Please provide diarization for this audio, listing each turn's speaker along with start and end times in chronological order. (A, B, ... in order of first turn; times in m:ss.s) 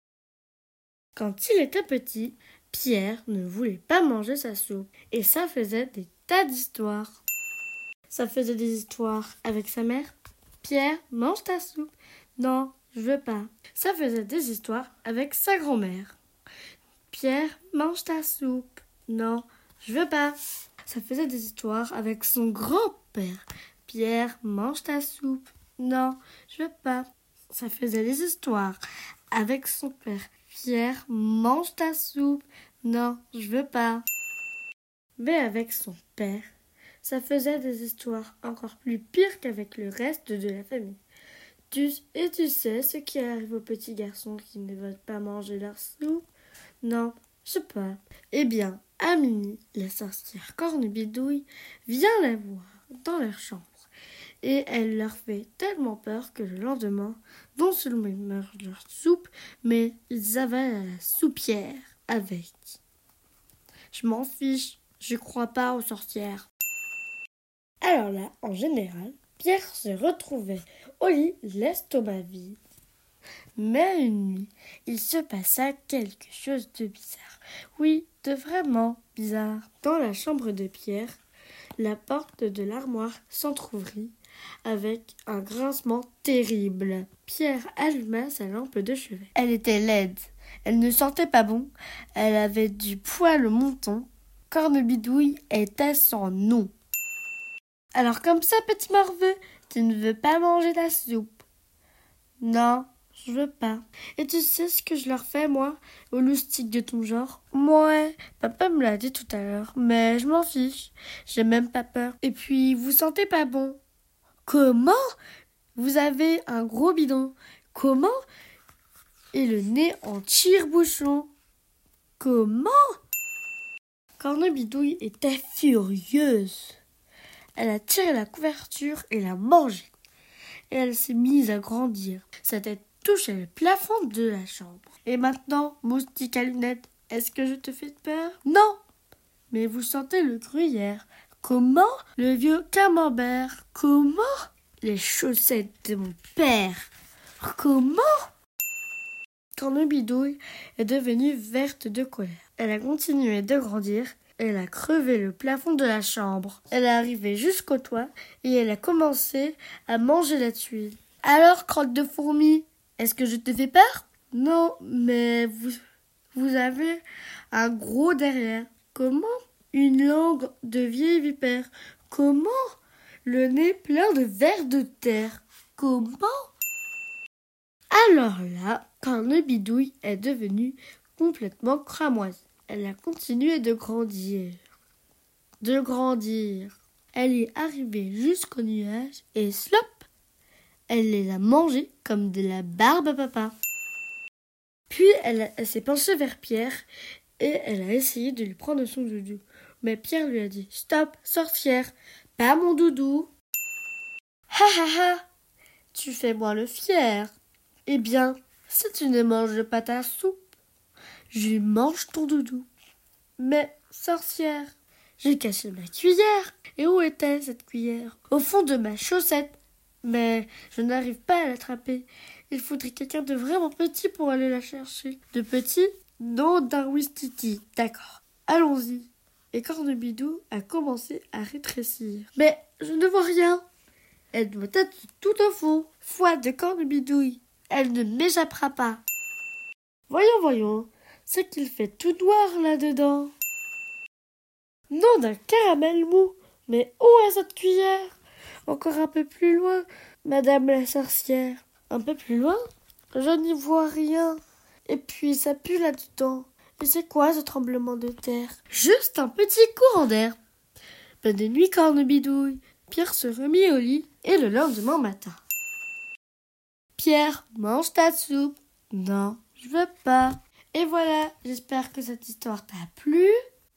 0:01.2-0:07.2 A
0:08.1-0:16.2 A
0:17.1-0:20.4 A
0:20.9-0:28.8 A
0:29.3-0:34.0 A
0:35.2-0:36.5 A
0:37.0-0:41.0 A
0:41.7-0:46.3 A
0:46.8-0:53.8 A
0:54.4-1:02.8 A
1:03.9-1:06.4 A
1:07.8-1:12.6 A
1:13.6-1:21.2 A
1:21.8-1:24.1 A
1:24.6-1:36.7 A
1:37.9-1:41.4 A
1:42.4-1:53.8 A
1:54.4-1:55.0 A
1:55.8-1:58.2 A
1:59.3-2:01.3 A
2:02.2-2:02.8 A
2:04.2-2:06.8 A
2:07.6-2:09.9 A
2:10.7-2:18.8 A
2:19.5-2:26.9 A
2:27.4-2:28.1 A
2:29.6-2:45.8 A
2:46.3-2:56.5 A
2:57.9-3:04.6 A
3:05.6-3:10.1 A
3:10.9-3:13.5 A
3:14.9-3:16.8 A
3:17.4-3:23.3 A
3:24.5-3:25.2 A
3:25.9-3:27.3 A
3:27.8-3:30.5 A
3:31.3-3:32.7 A
3:33.4-3:53.6 A
3:54.3-3:59.0 A
4:00.1-4:03.3 A
4:04.9-4:08.1 A
4:08.7-4:12.6 A
4:13.1-4:20.4 A
4:21.2-4:25.4 A
4:27.0-4:33.3 A